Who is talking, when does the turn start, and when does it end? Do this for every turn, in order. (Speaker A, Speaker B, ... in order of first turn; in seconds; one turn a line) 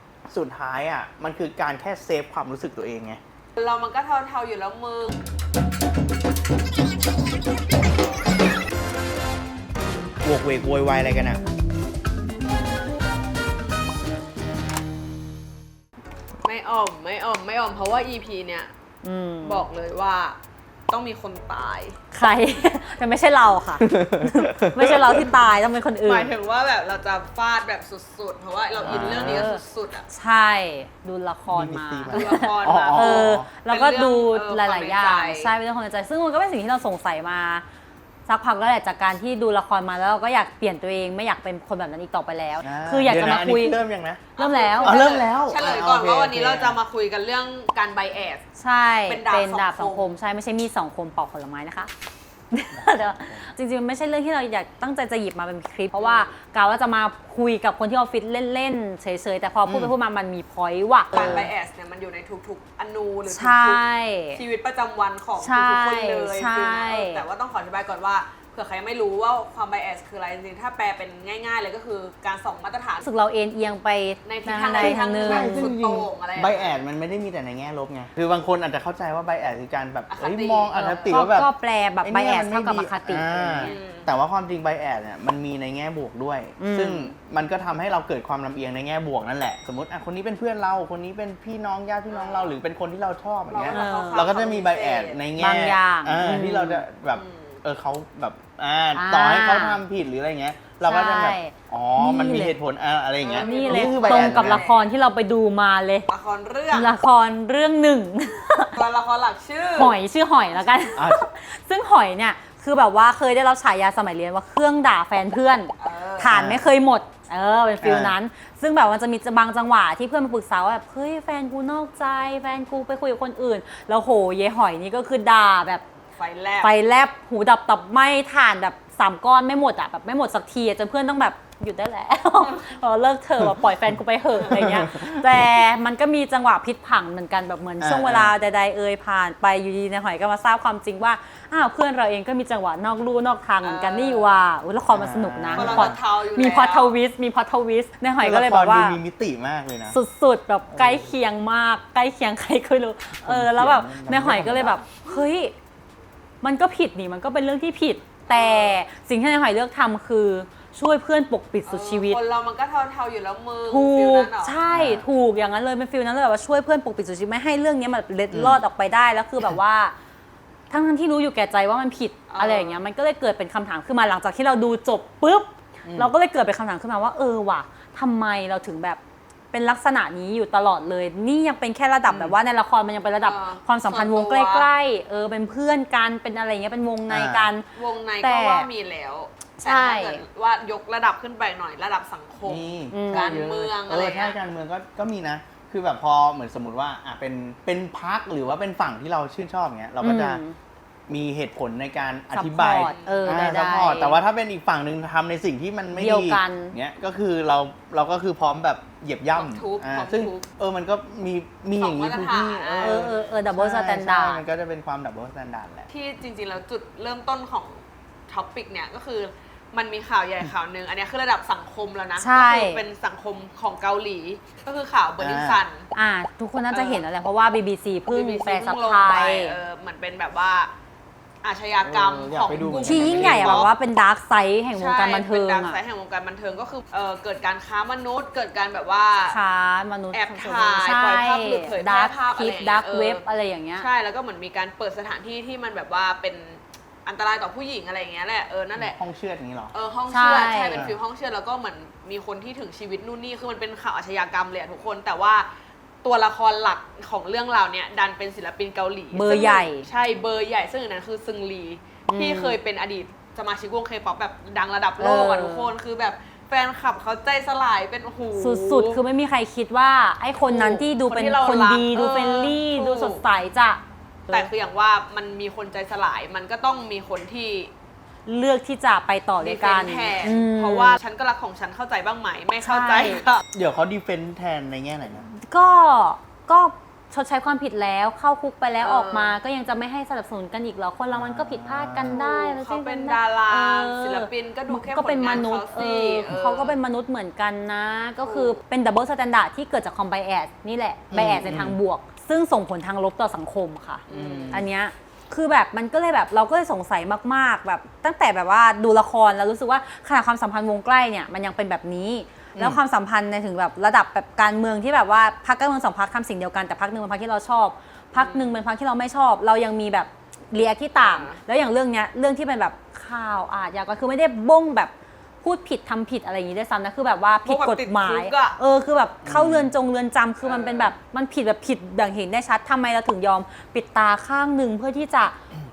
Speaker A: 0.3-3.2
Speaker B: 3.5-5.2
Speaker A: 10.2-11.4
Speaker B: 16.4-18.7
Speaker C: 19.0-19.6
Speaker B: 19.4-20.4
Speaker B: 20.9-22.0
Speaker C: 22.1-26.3
Speaker A: 23.8-25.3
Speaker B: 26.0-30.1
Speaker A: 28.8-29.5
Speaker C: 28.9-37.6
Speaker A: 31.5-33.5
Speaker B: 32.1-35.5
Speaker C: 38.2-43.8
Speaker A: 42.6-44.3
Speaker B: 44.4-48.4
Speaker C: 44.4-45.0
Speaker A: 44.8-46.8
Speaker C: 48.6-51.9
Speaker B: 49.1-50.1
Speaker C: 52.5-61.4
Speaker A: 52.7-53.5
Speaker B: 55.9-56.3
Speaker A: 59.6-59.9
Speaker B: 61.1-63.8
Speaker A: 61.1-61.5
Speaker C: 63.3-64.4
Speaker B: 64.3-73.0
Speaker C: 65.4-67.2
Speaker C: 73.0-75.7
Speaker B: 74.2-76.8
Speaker A: 74.8-81.5
Speaker B: 80.1-81.2
Speaker C: 80.8-83.8
Speaker A: 82.0-104.6
Speaker B: 83.6-84.1
Speaker C: 86.6-87.1
Speaker B: 92.1-92.6
Speaker B: 93.5-95.2
Speaker C: 93.7-94.2
Speaker C: 95.4-96.8
Speaker B: 97.1-97.6
Speaker C: 98.9-99.8
Speaker C: 100.8-102.5
Speaker B: 103.2-105.0
Speaker C: 103.3-106.1
Speaker B: 106.1-106.9
Speaker C: 106.7-108.8
Speaker B: 108.7-110.0
Speaker C: 109.8-125.8
Speaker A: 111.0-111.3
Speaker B: 115.8-116.3
Speaker A: 116.3-116.7
Speaker A: 117.8-118.2
Speaker B: 126.2-126.7
Speaker C: 126.6-149.0
Speaker A: 134.3-135.6
Speaker A: 137.8-138.3
Speaker B: 143.6-144.4
Speaker A: 144.9-146.0
Speaker B: 145.5-147.0
Speaker A: 148.2-150.0
Speaker C: 149.9-155.5
Speaker A: 150.7-151.2
Speaker A: 153.2-154.8
Speaker C: 156.4-162.2
Speaker B: 158.3-158.8
Speaker B: 161.6-164.6
Speaker C: 163.7-169.9
Speaker A: 164.7-165.1
Speaker A: 168.3-168.6
Speaker C: 170.7-179.0
Speaker B: 172.3-172.8
Speaker A: 175.8-176.1
Speaker C: 179.5-187.7
Speaker A: 182.1-182.3
Speaker B: 183.2-184.7
Speaker A: 187.1-187.5
Speaker B: 187.7-194.4
Speaker C: 188.2-188.7
Speaker C: 189.6-190.2
Speaker A: 192.4-200.4
Speaker C: 192.9-193.4
Speaker C: 200.0-200.6
Speaker A: 201.1-215.9
Speaker C: 202.3-204.2
Speaker B: 202.8-203.3
Speaker C: 205.9-206.8
Speaker B: 209.3-210.5
Speaker B: 211.8-213.3
Speaker C: 212.8-214.4
Speaker B: 215.9-225.9
Speaker C: 222.2-222.8
Speaker A: 225.2-225.6
Speaker C: 225.9-229.6
Speaker B: 226.7-227.0
Speaker B: 228.1-230.7
Speaker B: 231.4-233.7
Speaker A: 231.8-233.7
Speaker C: 232.8-235.8
Speaker B: 234.7-239.4
Speaker C: 239.3-243.9
Speaker B: 240.1-243.2
Speaker B: 243.8-249.0
Speaker A: 248.7-249.7
Speaker B: 249.7-255.5
Speaker C: 250.1-250.8
Speaker B: 256.0-269.0
Speaker C: 259.1-259.9
Speaker C: 262.1-262.6
Speaker C: 265.0-265.7
Speaker C: 268.4-274.5
Speaker B: 270.4-273.2
Speaker B: 274.3-277.7
Speaker C: 278.2-281.0
Speaker B: 279.4-283.4
Speaker C: 282.6-283.2
Speaker A: 283.5-285.3
Speaker C: 285.3-335.4
Speaker B: 288.8-289.4
Speaker A: 291.1-292.2
Speaker B: 292.1-296.8
Speaker B: 298.2-298.6
Speaker A: 301.1-301.8
Speaker B: 304.1-304.6
Speaker A: 304.1-304.6
Speaker A: 312.5-312.8
Speaker B: 318.1-318.6
Speaker B: 320.9-321.4
Speaker B: 327.4-328.6
Speaker A: 329.2-329.7
Speaker B: 330.4-330.9